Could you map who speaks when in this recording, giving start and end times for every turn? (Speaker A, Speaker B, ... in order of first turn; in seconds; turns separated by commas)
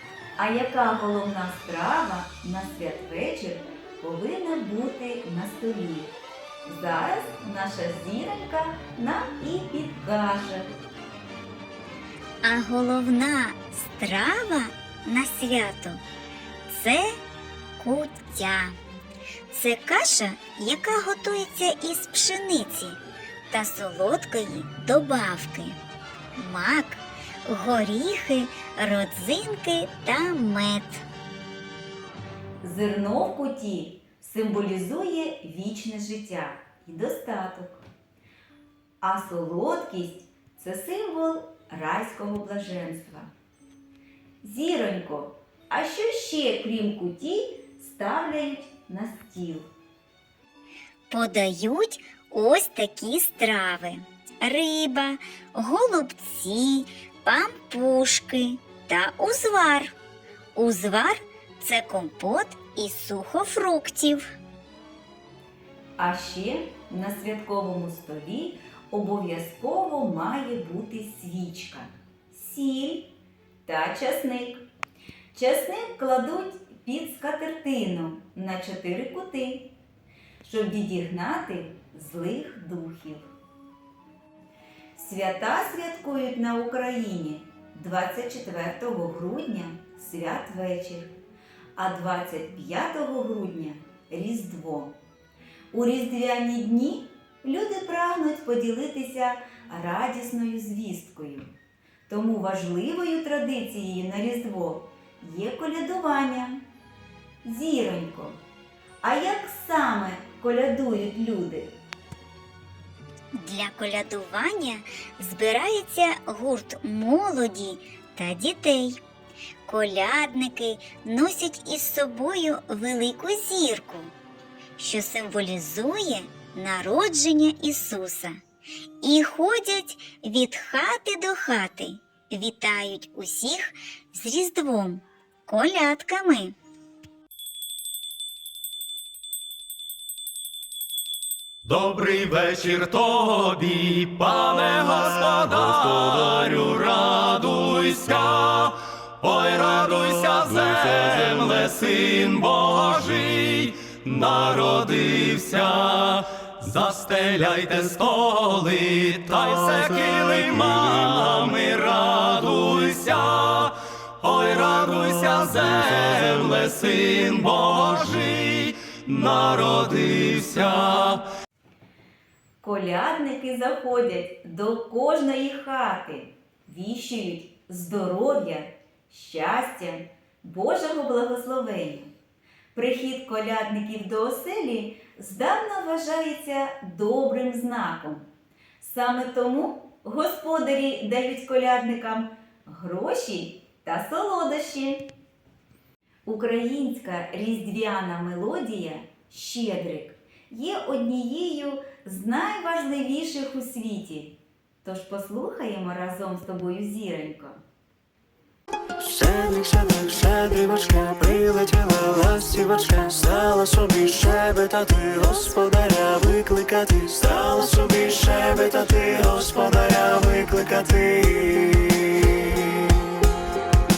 Speaker A: 0.4-6.2, Speaker A: 6.7-10.7, Speaker B: 12.4-16.0, Speaker B: 16.7-17.1, Speaker B: 17.8-18.8, Speaker B: 19.5-23.0, Speaker B: 23.5-25.8, Speaker B: 26.4-31.1, Speaker A: 32.6-37.9, Speaker A: 39.0-43.3, Speaker A: 44.4-49.7, Speaker B: 51.1-60.0, Speaker B: 60.5-64.2, Speaker A: 66.0-73.1, Speaker A: 73.7-74.6, Speaker A: 75.3-79.7, Speaker A: 80.4-83.3, Speaker A: 85.0-91.1, Speaker A: 91.8-95.0, Speaker A: 95.7-101.5, Speaker A: 102.1-106.6, Speaker A: 107.4-108.4, Speaker A: 109.0-111.7, Speaker B: 113.3-119.0, Speaker B: 119.7-124.1, Speaker B: 124.8-128.3, Speaker B: 129.0-136.6, Speaker C: 141.6-171.3, Speaker A: 172.6-182.1, Speaker A: 182.7-188.3, Speaker A: 188.8-195.1, Speaker A: 196.3-207.6, Speaker D: 209.0-223.1